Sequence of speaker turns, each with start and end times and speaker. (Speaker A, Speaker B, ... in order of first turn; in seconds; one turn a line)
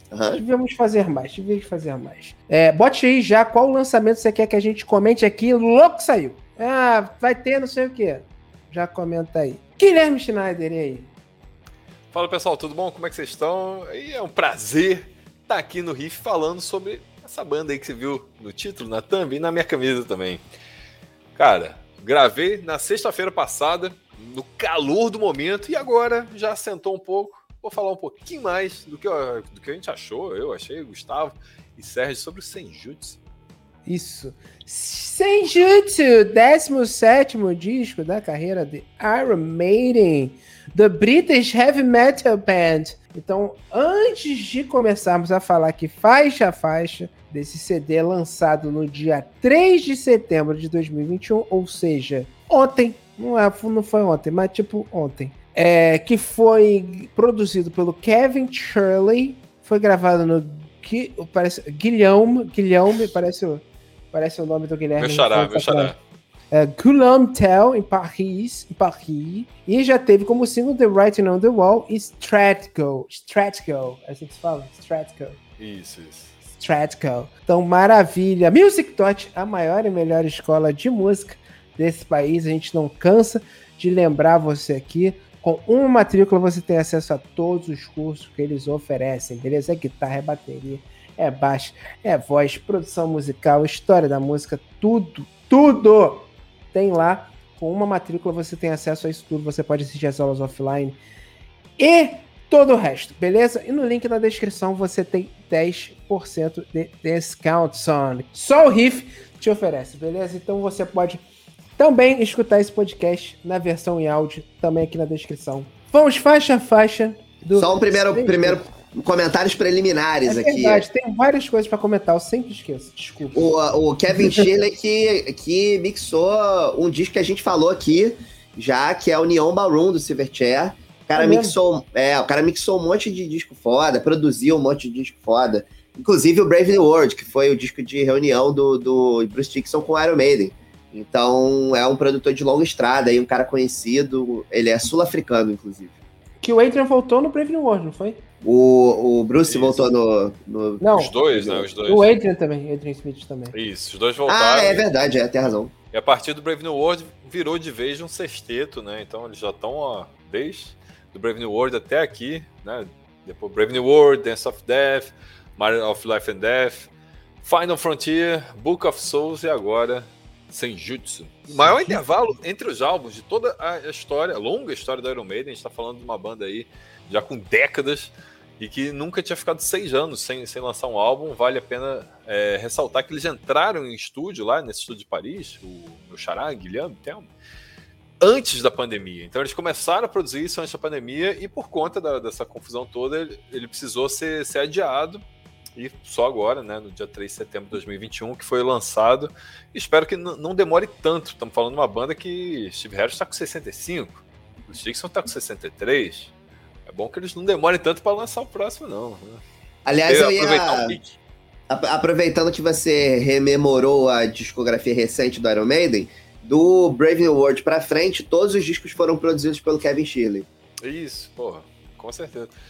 Speaker A: 0.1-0.4
Speaker B: 0.3-11.1
Speaker C: 12.1-20.4
Speaker C: 21.4-33.2
Speaker B: 33.9-65.9
Speaker C: 65.0-66.0
Speaker B: 66.5-75.4
Speaker C: 75.6-76.3
Speaker B: 76.6-101.0
Speaker B: 101.8-111.2
Speaker B: 111.8-118.6
Speaker A: 117.5-120.8
Speaker B: 120.2-123.5
Speaker A: 123.3-145.9
Speaker B: 124.2-124.5
Speaker B: 131.2-131.6
Speaker B: 146.4-148.2
Speaker A: 148.4-151.7
Speaker C: 149.5-149.9
Speaker B: 150.8-151.1
Speaker C: 150.9-152.2
Speaker B: 151.8-153.5
Speaker C: 153.5-154.9
Speaker A: 154.3-155.7
Speaker C: 155.9-166.9
Speaker C: 167.4-187.3
Speaker B: 171.6-172.0
Speaker C: 188.2-195.2
Speaker C: 195.8-206.3
Speaker C: 206.9-209.4
Speaker A: 209.8-211.0
Speaker C: 210.1-211.0
Speaker A: 211.7-220.5
Speaker C: 220.8-222.5